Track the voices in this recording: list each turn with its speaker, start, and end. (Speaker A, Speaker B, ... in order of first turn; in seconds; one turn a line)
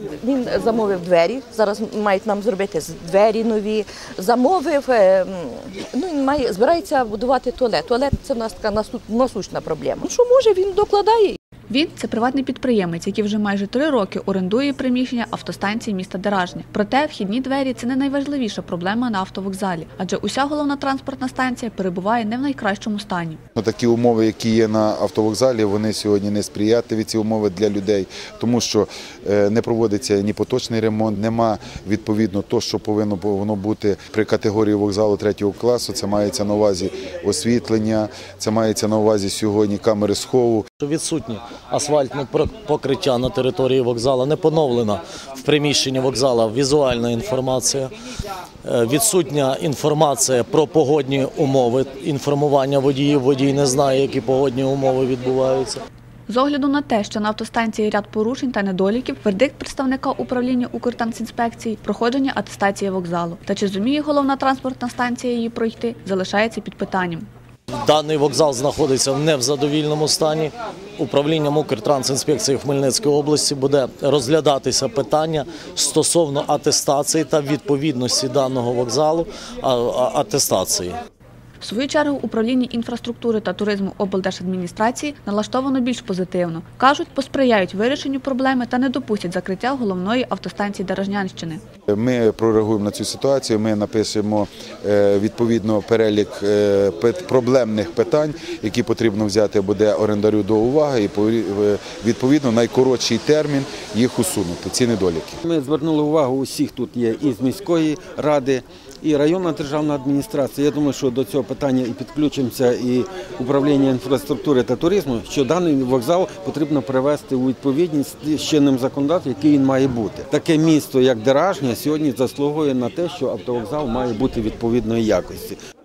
Speaker A: 0.2-11.4
Speaker B: 11.7-23.4
Speaker C: 23.6-40.7
Speaker D: 40.8-47.9
Speaker D: 48.6-55.8
Speaker B: 56.3-67.3
Speaker D: 67.8-81.0
Speaker B: 81.6-91.6
Speaker C: 91.9-105.4
Speaker E: 105.4-125.6